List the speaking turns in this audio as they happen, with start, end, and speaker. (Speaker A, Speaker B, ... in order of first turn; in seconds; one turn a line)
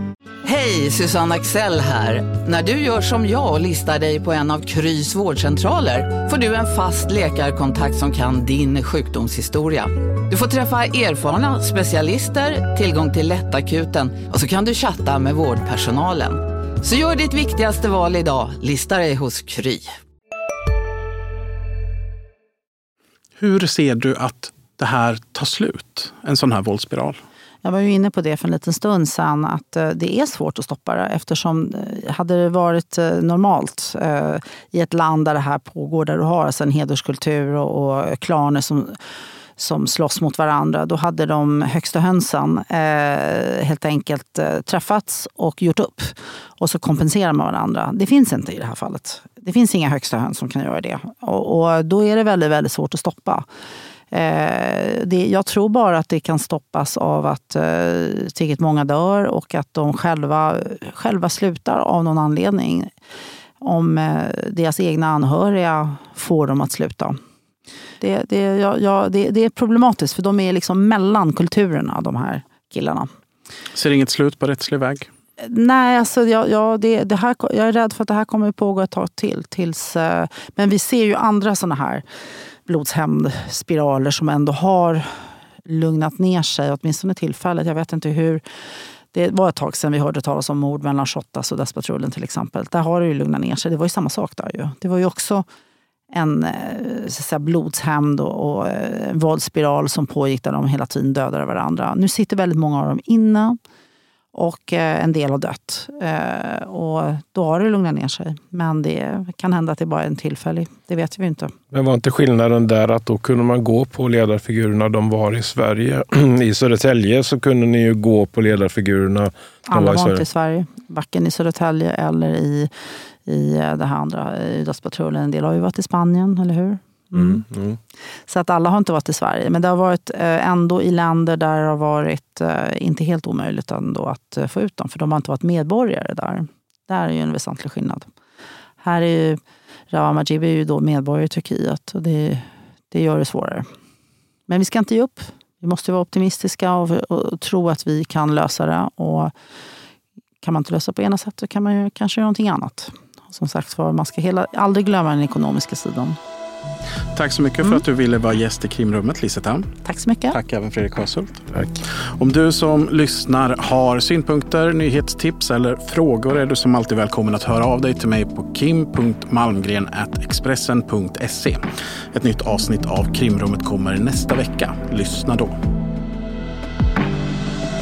Speaker A: 0.5-19.9
Speaker B: 23.4-27.2
Speaker C: 27.6-39.0
Speaker C: 39.6-53.5
Speaker C: 54.1-62.9
Speaker C: 63.6-67.2
Speaker C: 68.0-73.1
Speaker B: 73.8-75.1
Speaker C: 75.4-82.0
Speaker C: 82.7-85.1
Speaker C: 85.7-88.4
Speaker C: 89.1-95.5
Speaker C: 96.1-103.6
Speaker C: 104.3-111.5
Speaker D: 111.7-120.2
Speaker C: 119.7-122.7
Speaker C: 123.3-127.4
Speaker D: 127.1-127.8
Speaker C: 128.3-138.1
Speaker C: 138.8-139.4
Speaker C: 139.9-143.7
Speaker C: 144.5-149.3
Speaker C: 150.4-156.2
Speaker B: 157.2-159.7
Speaker C: 159.8-160.4
Speaker B: 160.3-161.4
Speaker B: 162.1-171.6
Speaker B: 172.1-175.6